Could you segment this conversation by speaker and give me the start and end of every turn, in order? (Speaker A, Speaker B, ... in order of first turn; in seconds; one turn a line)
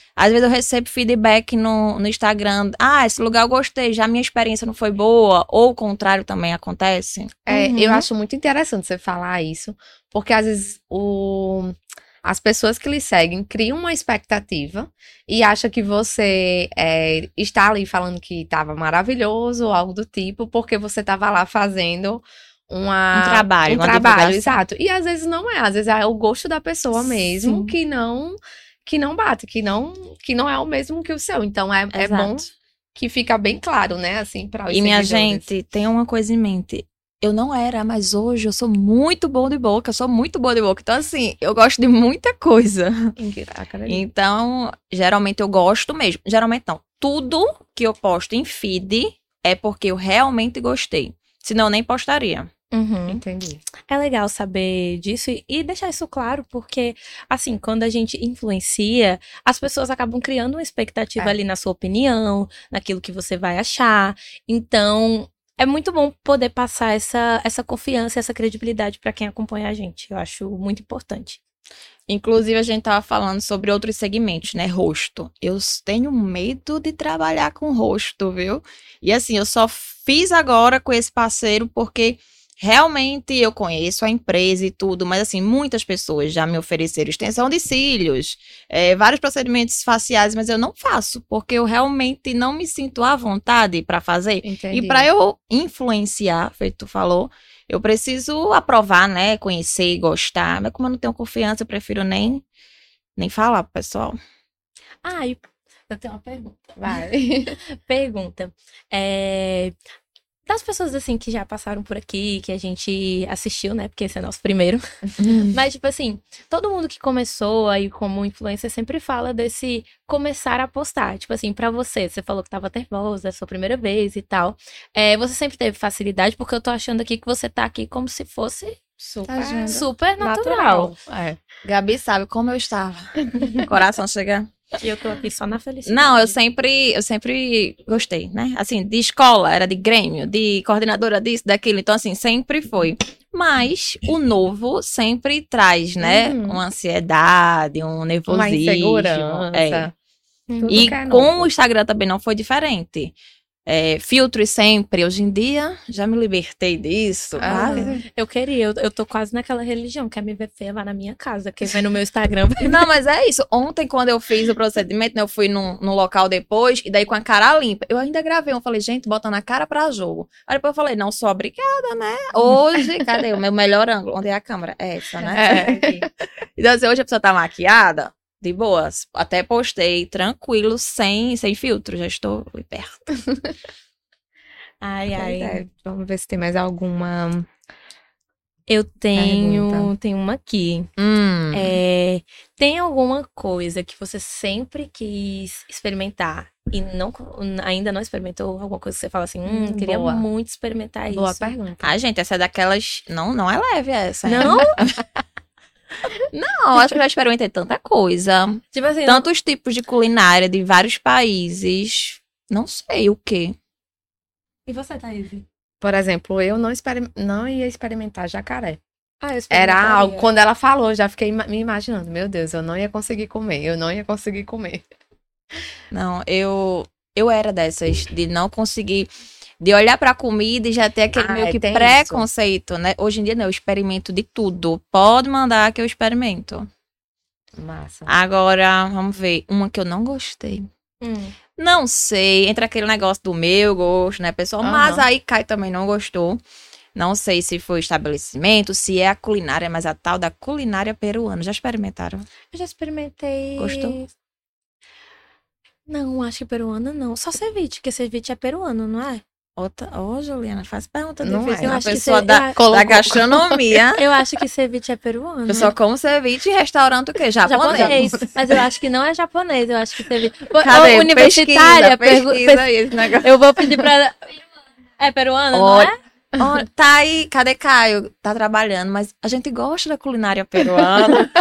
Speaker A: 0.2-7.5
Speaker B: 7.5-35.4
Speaker C: 7.5-8.1
Speaker A: 23.1-24.6
Speaker A: 31.9-32.5
Speaker A: 34.7-43.1
Speaker B: 43.2-44.0
Speaker A: 43.9-52.5
Speaker C: 52.7-53.2
Speaker B: 53.1-53.6
Speaker C: 53.9-71.4
Speaker A: 72.1-102.4
Speaker B: 94.4-95.1
Speaker A: 103.2-104.2
Speaker C: 105.0-107.0
Speaker B: 106.8-107.6
Speaker C: 107.7-109.7
Speaker C: 110.5-130.9
Speaker A: 115.2-115.5
Speaker B: 129.2-131.4
Speaker A: 129.4-129.8
Speaker A: 131.6-134.5
Speaker C: 134.8-136.3
Speaker A: 135.8-149.9
Speaker B: 146.0-146.6
Speaker B: 148.3-149.9
Speaker C: 150.5-150.9
Speaker B: 150.6-151.5
Speaker A: 150.7-153.1
Speaker A: 153.7-157.9
Speaker B: 157.4-158.0
Speaker C: 157.5-162.8
Speaker A: 162.6-176.0
Speaker C: 175.2-176.0
Speaker B: 175.3-176.0
Speaker A: 176.6-183.1
Speaker C: 184.8-185.6
Speaker B: 185.2-187.5
Speaker C: 188.7-190.9
Speaker B: 189.2-189.9
Speaker A: 191.0-191.8
Speaker C: 191.5-201.5
Speaker B: 199.5-200.2
Speaker B: 201.1-201.9
Speaker A: 201.8-205.0
Speaker C: 204.2-204.8
Speaker B: 204.4-204.6
Speaker A: 206.3-213.6
Speaker C: 208.7-209.3
Speaker C: 214.7-215.4
Speaker B: 215.8-218.8
Speaker C: 219.2-220.3
Speaker B: 219.5-224.8
Speaker A: 225.9-229.1
Speaker A: 229.6-236.7
Speaker B: 231.1-232.2
Speaker B: 237.6-238.1
Speaker A: 238.1-240.7
Speaker C: 241.0-241.4
Speaker A: 241.6-246.4
Speaker B: 244.6-245.1
Speaker A: 246.9-252.3
Speaker C: 252.5-254.1
Speaker A: 253.6-254.0
Speaker C: 255.9-259.2
Speaker A: 259.6-264.0
Speaker B: 261.2-261.8
Speaker C: 261.5-262.6
Speaker B: 262.5-263.6
Speaker C: 264.0-265.7
Speaker A: 265.5-268.0
Speaker C: 267.4-274.3
Speaker B: 267.7-268.3
Speaker A: 270.6-273.3
Speaker C: 275.0-275.9
Speaker A: 275.5-281.3